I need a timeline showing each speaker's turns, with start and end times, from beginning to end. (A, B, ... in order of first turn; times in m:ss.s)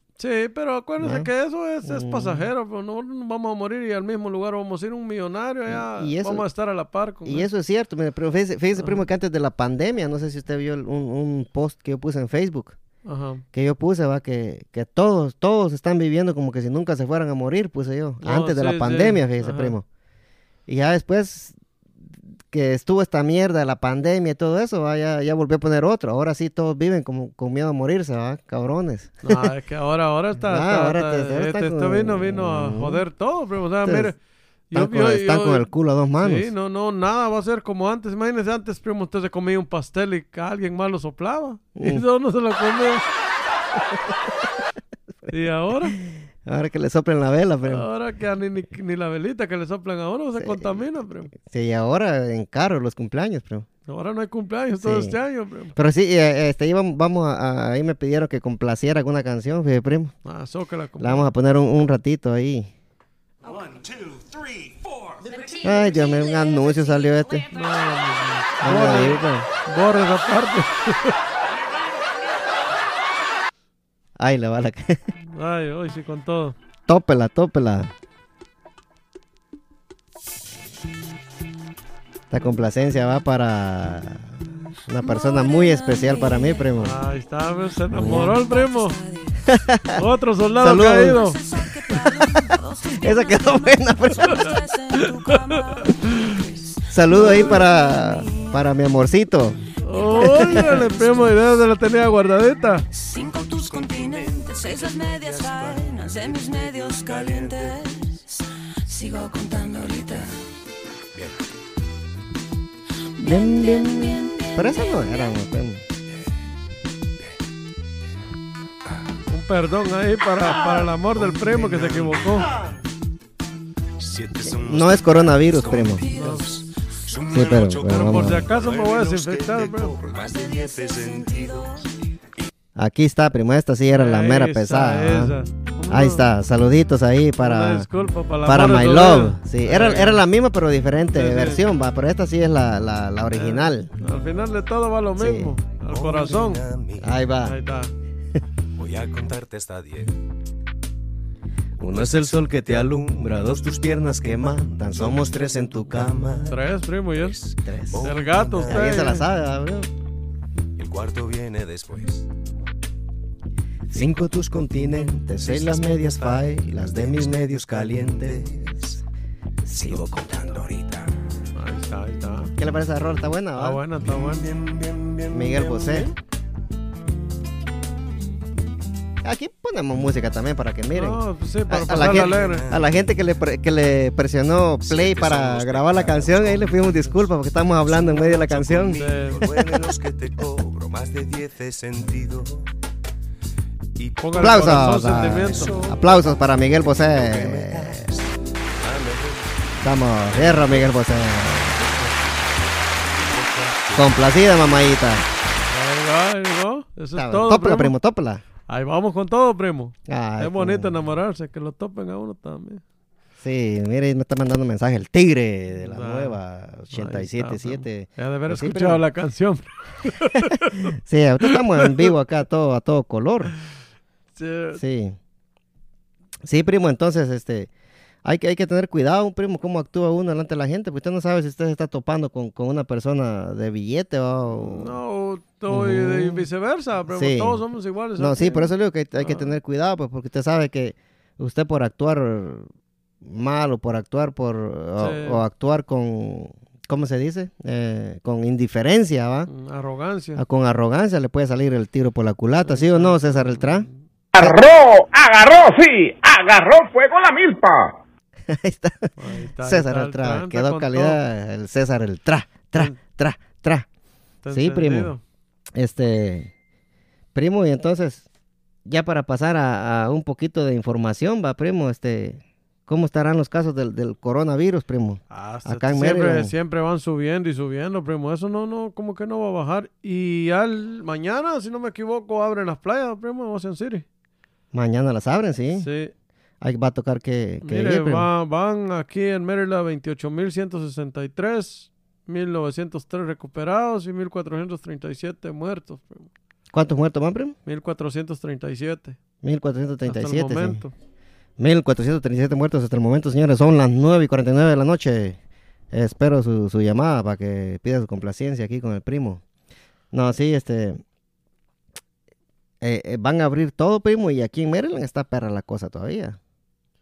0:00.2-0:07.5 A
0:01.0-0:01.3 B
0:01.8-0:02.5 B
0:05.7-0:06.5 B
0:07.2-0:12.8 B
0:13.0-0:13.4 A
0:13.5-0:19.9 B
0:18.2-0:19.8 A
0:20.7-0:21.6 B
0:22.5-0:29.5 B
0:29.2-0:34.2 A
0:30.4-0:33.0 B
0:33.8-0:34.1 B
0:34.7-0:35.7 A
0:34.7-0:36.5 B
0:36.2-0:43.0 A
0:41.8-0:42.0 B
0:45.3-0:46.0 A
0:46.4-0:47.9 B
0:47.6-0:51.3 A
0:50.4-0:53.7 B
0:53.9-0:55.8 A
0:54.8-0:55.2 B
0:55.8-1:00.1 B
1:00.2-1:01.3 A
1:01.0-1:02.7 B
1:05.3-1:07.5 C
1:05.6-1:07.5 B
1:07.5-1:11.2 A
1:08.6-1:09.5 B
1:14.2-1:15.0 B
1:15.3-1:16.6 A
1:16.9-1:17.9 B
1:22.3-1:27.0 B
1:25.0-1:26.7 C
1:26.8-1:29.0 A
1:27.9-1:28.4 B
1:27.9-1:29.5 C
1:29.5-1:30.0 B
1:30.0-1:31.4 A
1:30.6-1:31.2 B
1:31.0-1:38.5 C
1:31.9-1:34.5 B
1:34.3-1:36.4 A
1:36.9-1:39.6 B
1:37.1-1:37.6 A
1:39.8-1:42.8 A
1:39.8-1:41.5 C
1:40.2-1:40.8 B
1:42.9-1:50.3 C
1:43.2-1:47.9 D
1:51.2-1:51.4 D
1:53.2-1:55.4 C
1:53.2-1:55.8 B
1:59.3-2:02.5 A
2:00.4-2:02.7 D
2:04.0-2:11.9 D
2:04.5-2:06.1 B
2:05.4-2:06.7 C
2:06.1-2:06.5 A
2:07.3-2:08.5 B
2:07.8-2:10.0 A
2:10.1-2:11.8 C
2:12.8-2:15.4 B
2:13.9-2:16.3 A
2:15.9-2:17.9 B
2:17.4-2:20.2 A
2:18.4-2:23.9 B
2:21.1-2:21.6 A
2:23.3-2:26.6 A
2:25.2-2:25.6 B
2:25.9-2:27.2 D
2:27.0-2:27.6 B
2:27.4-2:27.9 A
2:28.8-2:30.2 D
2:31.8-2:36.4 B
2:31.8-2:39.2 D
2:36.5-2:37.4 A
2:37.6-2:39.9 B
2:38.0-2:39.3 A
2:40.8-2:42.3 D
2:43.9-2:48.7 B
2:43.9-2:49.0 D
2:49.7-2:50.7 B
2:49.7-2:51.2 D
2:51.6-2:52.5 A
2:52.6-2:53.8 B
2:53.6-2:54.5 A
2:54.0-2:56.1 D
2:55.3-2:56.1 B
2:59.2-3:09.9 B
3:00.9-3:02.7 A
3:01.8-3:03.2 D
3:04.8-3:12.7 D
3:08.9-3:09.4 A
3:14.0-3:22.5 D
3:14.2-3:15.8 A
3:14.4-3:18.1 B
3:19.8-3:21.9 B
3:23.0-3:24.4 D
3:24.0-3:25.3 B
3:25.7-3:28.0 A
3:27.2-3:28.4 B
3:28.7-3:32.8 A
3:30.1-3:31.0 B
3:33.4-3:39.0 B
3:35.8-3:36.4 A
3:36.9-3:42.1 A
3:40.9-3:43.5 B
3:44.4-3:44.8 A
3:44.8-3:45.2 B
3:46.4-3:47.7 B
3:48.2-3:55.0 B
3:54.5-3:59.5 A
3:55.7-3:56.5 B
3:57.1-3:57.6 B
3:58.2-4:02.7 B
4:03.2-4:09.5 B
4:05.0-4:05.4 A
4:09.5-4:10.4 A
4:10.4-4:13.9 B
4:12.6-4:14.0 A
4:14.3-4:18.0 E
4:18.5-4:23.9 B
4:19.2-4:21.2 A
4:24.4-4:25.2 A
4:24.5-4:25.1 B
4:25.8-4:26.5 B
4:27.4-4:28.2 B
4:28.9-4:36.5 B
4:35.3-4:44.1 A
4:44.7-4:45.9 B
4:45.8-4:46.1 A
4:46.6-4:48.3 B
4:47.6-4:56.3 A
4:56.7-4:57.6 B
4:57.7-4:59.2 A
4:59.4-5:00.8 B
5:00.1-5:00.9 A
5:01.6-5:05.4 B
5:05.9-5:09.4 B
5:10.1-5:11.0 B
5:12.8-5:16.4 B